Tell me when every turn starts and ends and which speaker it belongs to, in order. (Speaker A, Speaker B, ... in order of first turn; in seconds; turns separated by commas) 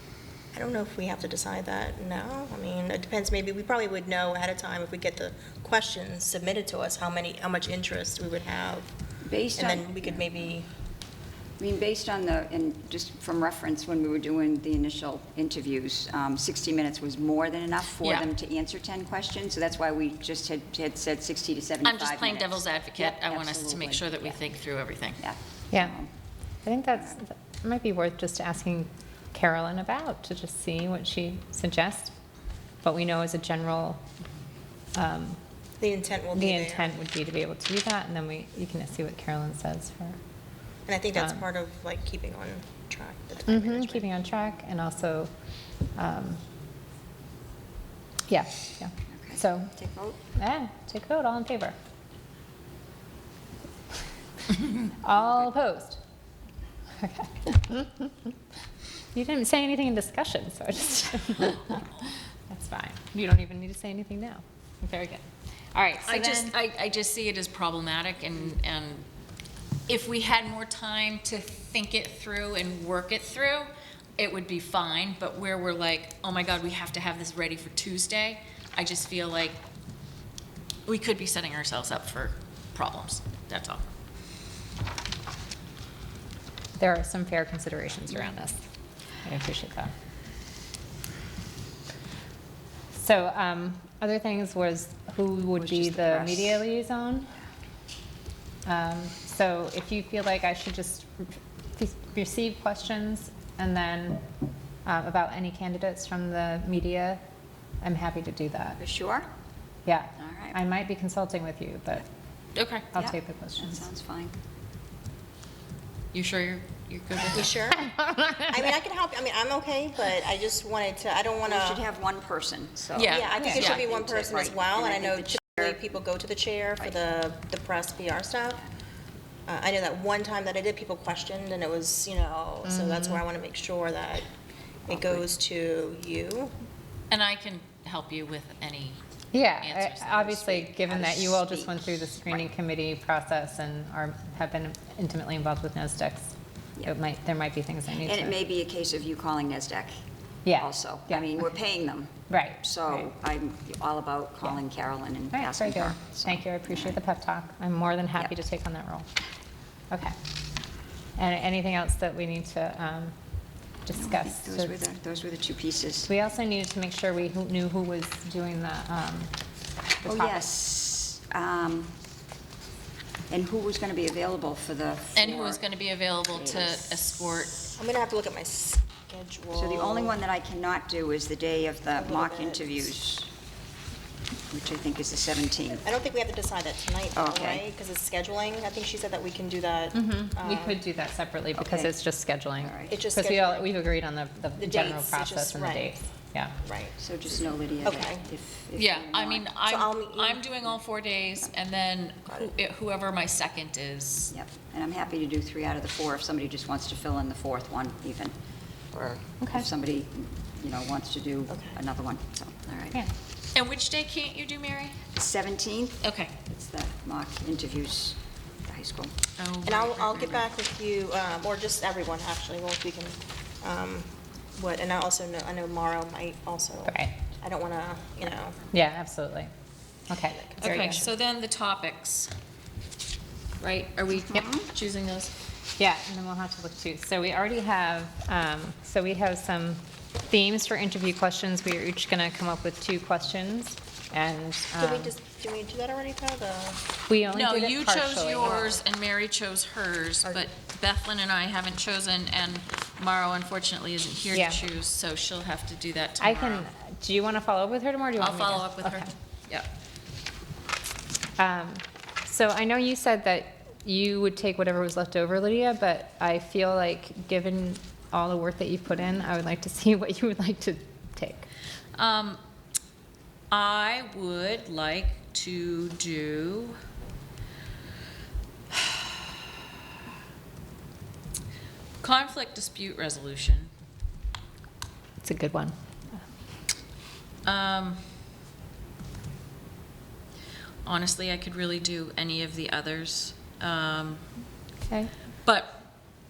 Speaker A: 0.5-8.9, Speaker B: 9.2-10.5, Speaker A: 9.5-10.7, Speaker B: 11.6-24.3, Speaker C: 21.8-25.2, Speaker B: 25.2-26.1, Speaker D: 25.7-26.0, Speaker D: 26.6-32.1, Speaker D: 32.8-34.0, Speaker D: 34.9-35.4, Speaker A: 35.8-36.9, Speaker D: 36.3-40.2, Speaker A: 40.9-44.0, Speaker D: 41.1-41.4, Speaker D: 43.5-45.3, Speaker D: 46.0-46.4, Speaker D: 48.3-49.7, Speaker B: 49.1-50.2, Speaker D: 50.3-51.7, Speaker D: 54.9-56.0, Speaker D: 57.0-58.3, Speaker D: 59.1-65.2, Speaker D: 65.7-66.1, Speaker C: 66.0-69.1, Speaker A: 66.1-66.4, Speaker C: 69.9-79.6, Speaker C: 80.8-83.8, Speaker D: 86.8-88.6, Speaker D: 89.2-89.9, Speaker D: 92.9-97.3, Speaker B: 95.6-96.6, Speaker D: 98.6-104.2, Speaker D: 104.8-107.2, Speaker D: 107.8-108.8, Speaker B: 108.8-109.3, Speaker D: 109.8-112.0, Speaker B: 110.2-110.6, Speaker C: 112.5-112.9, Speaker D: 112.9-113.8, Speaker B: 112.9-114.3, Speaker C: 116.1-117.6, Speaker A: 117.3-117.9, Speaker D: 117.9-118.4, Speaker A: 118.4-121.9, Speaker B: 121.5-125.8, Speaker C: 122.9-123.8, Speaker A: 123.1-128.6, Speaker A: 129.5-134.3, Speaker D: 132.6-133.2, Speaker A: 134.9-136.5, Speaker B: 134.9-135.2, Speaker C: 137.1-139.0, Speaker D: 139.3-148.4, Speaker C: 139.6-140.3, Speaker B: 140.3-142.4, Speaker B: 148.0-149.9, Speaker D: 150.4-151.3, Speaker B: 150.5-157.0, Speaker D: 152.3-153.1, Speaker D: 155.3-159.1, Speaker D: 161.2-163.2, Speaker D: 163.8-164.8, Speaker B: 163.9-166.1, Speaker D: 166.1-169.3, Speaker D: 170.0-170.5, Speaker B: 170.0-171.9, Speaker B: 173.3-175.6, Speaker C: 175.1-177.7, Speaker B: 176.3-176.9, Speaker A: 177.7-180.2, Speaker B: 179.5-183.3, Speaker A: 181.9-182.9, Speaker B: 184.5-185.9, Speaker A: 185.8-190.8, Speaker B: 187.1-187.6, Speaker D: 189.9-196.6, Speaker B: 191.6-191.9, Speaker B: 192.6-192.9, Speaker A: 192.9-193.7, Speaker A: 194.6-195.9, Speaker A: 196.6-198.2, Speaker B: 197.0-199.5, Speaker C: 198.7-204.3, Speaker A: 199.6-200.4, Speaker B: 204.3-208.3, Speaker B: 208.9-213.0, Speaker D: 209.4-209.7, Speaker C: 213.5-215.0, Speaker B: 215.1-219.1, Speaker C: 216.0-216.3, Speaker C: 219.4-220.4, Speaker A: 219.6-228.6, Speaker D: 226.8-227.2, Speaker D: 228.7-229.5, Speaker D: 230.1-231.1, Speaker A: 230.4-230.9, Speaker C: 230.6-232.3, Speaker C: 233.6-235.3, Speaker D: 235.8-245.1, Speaker A: 244.8-246.8, Speaker D: 247.1-248.6, Speaker C: 247.3-256.7, Speaker A: 248.4-248.8, Speaker D: 254.3-254.6, Speaker D: 256.2-259.1, Speaker C: 258.2-259.7, Speaker D: 261.4-271.5, Speaker C: 271.9-272.4, Speaker C: 273.5-276.8, Speaker C: 278.7-279.0, Speaker C: 282.0-283.7, Speaker D: 285.2-285.8, Speaker C: 287.4-288.0, Speaker C: 290.8-294.2, Speaker D: 294.9-295.1, Speaker C: 295.4-295.8